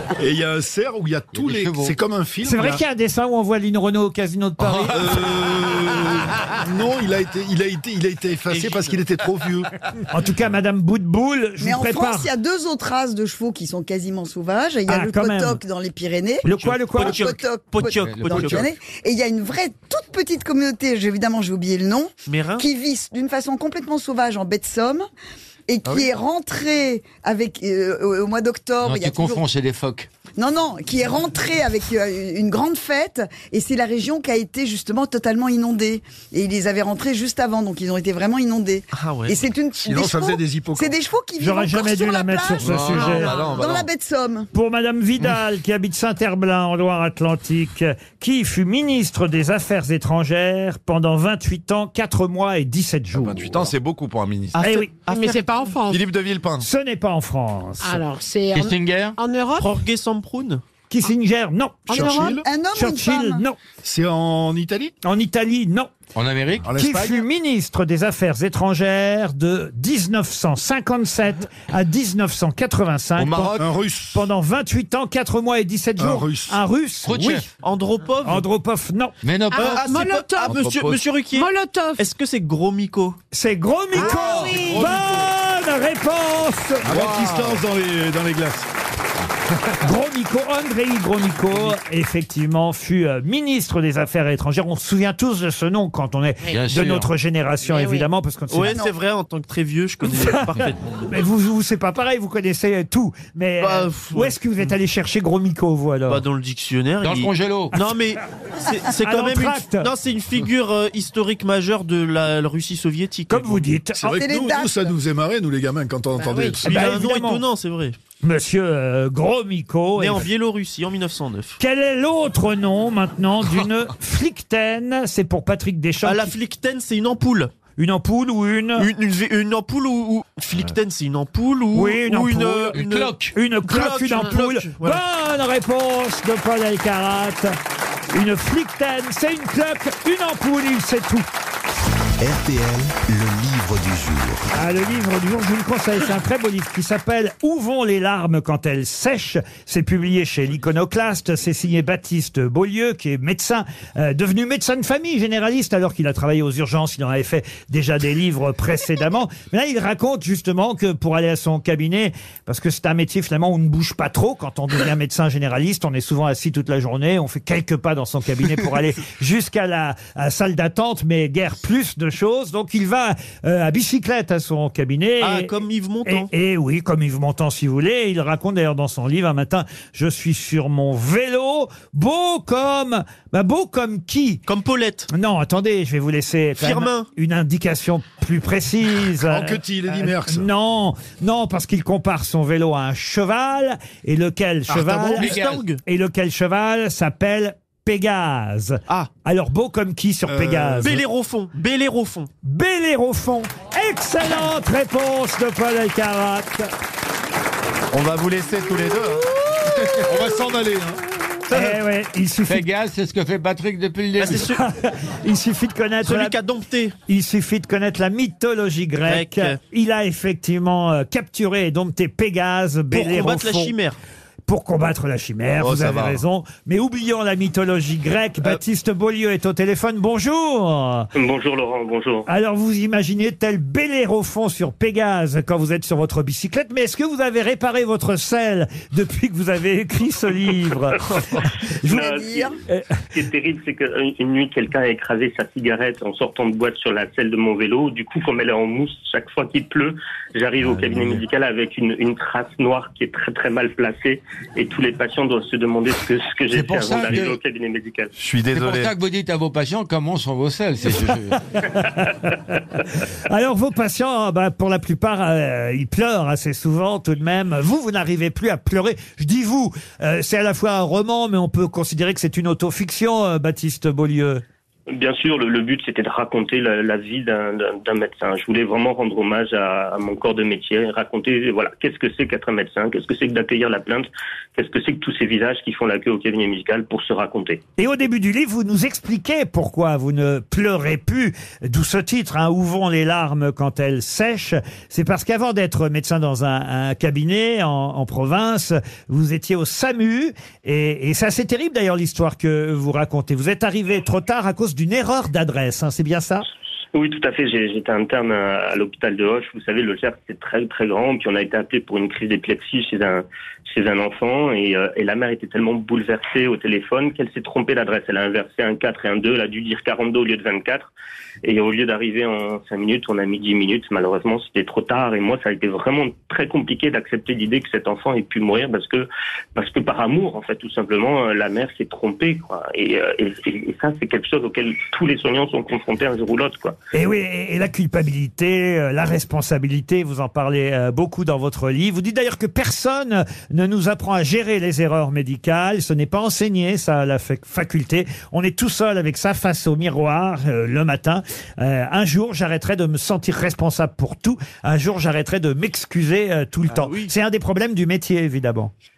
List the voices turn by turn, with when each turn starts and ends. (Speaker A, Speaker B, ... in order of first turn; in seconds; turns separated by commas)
Speaker A: 0.2-2.8, Speaker B: 1.3-1.9, Speaker C: 2.4-5.0, Speaker A: 4.9-9.7, Speaker D: 8.5-9.1, Speaker C: 10.1-12.3, Speaker E: 11.6-16.4, Speaker C: 14.9-15.6, Speaker C: 16.4-17.2, Speaker D: 16.5-18.7, Speaker E: 17.0-25.0, Speaker B: 17.9-18.7, Speaker D: 22.3-22.7, Speaker E: 25.7-29.4, Speaker B: 28.8-30.1, Speaker E: 30.4-44.5, Speaker D: 38.9-39.5, Speaker A: 39.8-41.0, Speaker C: 41.4-43.4, Speaker F: 42.9-43.5, Speaker G: 43.3-43.9, Speaker C: 44.5-53.7, Speaker G: 53.1-54.6, Speaker D: 54.5-55.4, Speaker C: 54.6-54.9, Speaker F: 54.9-56.0, Speaker G: 55.9-56.6, Speaker C: 56.6-58.0, Speaker F: 57.8-59.7, Speaker B: 58.5-59.1, Speaker D: 59.5-60.6, Speaker C: 60.9-62.2, Speaker F: 61.9-62.4, Speaker A: 61.9-62.4, Speaker E: 62.4-63.4, Speaker C: 62.7-63.6, Speaker A: 63.8-64.9, Speaker C: 65.0-65.9, Speaker B: 66.1-66.7, Speaker A: 66.6-67.2, Speaker C: 66.7-73.6, Speaker G: 73.2-73.6, Speaker A: 73.5-74.2, Speaker C: 74.1-77.5, Speaker A: 76.0-76.6, Speaker B: 77.0-77.5, Speaker D: 77.6-78.4, Speaker C: 78.2-79.1, Speaker B: 79.2-79.9, Speaker F: 79.5-80.6, Speaker D: 79.5-83.2, Speaker B: 80.5-81.0, Speaker F: 81.3-82.1, Speaker C: 83.3-87.0, Speaker F: 83.9-85.2, Speaker A: 84.6-85.1, Speaker A: 86.8-88.7, Speaker C: 89.8-98.8, Speaker B: 96.5-97.1, Speaker F: 97.7-98.1, Speaker D: 98.5-101.1, Speaker E: 98.7-98.9, Speaker C: 100.0-106.2, Speaker D: 103.6-104.3, Speaker D: 106.1-113.7, Speaker B: 107.0-107.8, Speaker C: 109.0-109.9, Speaker C: 113.3-114.2, Speaker A: 113.9-116.8, Speaker E: 114.0-114.9, Speaker F: 116.2-116.7, Speaker D: 116.6-118.0, Speaker C: 116.6-117.4, Speaker C: 118.2-120.3, Speaker D: 120.0-121.6, Speaker C: 121.6-126.4, Speaker D: 126.0-127.5, Speaker C: 127.8-128.9, Speaker D: 128.8-135.0, Speaker C: 131.7-137.6, Speaker B: 132.7-133.3, Speaker C: 138.1-141.3, Speaker H: 142.2-144.5, Speaker C: 144.5-175.5, Speaker D: 175.2-176.3, Speaker C: 176.0-184.4, Speaker D: 184.4-185.1, Speaker C: 185.1-201.0, Speaker D: 186.6-187.1, Speaker A: 189.2-190.5, Speaker D: 194.7-195.8, Speaker B: 195.2-195.6, Speaker A: 200.3-201.0, Speaker D: 200.8-202.3, Speaker C: 202.4-206.7, Speaker G: 207.9-209.2, Speaker A: 209.9-211.0, Speaker C: 211.5-212.7, Speaker B: 212.5-214.5, Speaker D: 214.2-214.6, Speaker C: 214.2-216.4, Speaker D: 216.0-216.9, Speaker C: 217.1-223.7, Speaker D: 219.0-219.6, Speaker D: 222.9-224.0, Speaker C: 224.5-231.1, Speaker G: 225.6-226.2, Speaker I: 231.1-232.3, Speaker C: 232.2-242.0, Speaker E: 241.8-242.6, Speaker I: 241.9-242.5, Speaker I: 243.1-258.1, Speaker B: 250.6-251.2, Speaker B: 256.5-257.4, Speaker G: 258.2-258.9, Speaker B: 258.5-261.4, Speaker C: 261.6-262.6, Speaker C: 263.3-274.4, Speaker I: 274.9-287.6, Speaker C: 287.8-306.4, Speaker I: 306.9-320.9, Speaker I: 321.4-336.8, Speaker C: 336.9-358.7, Speaker D: 356.7-357.1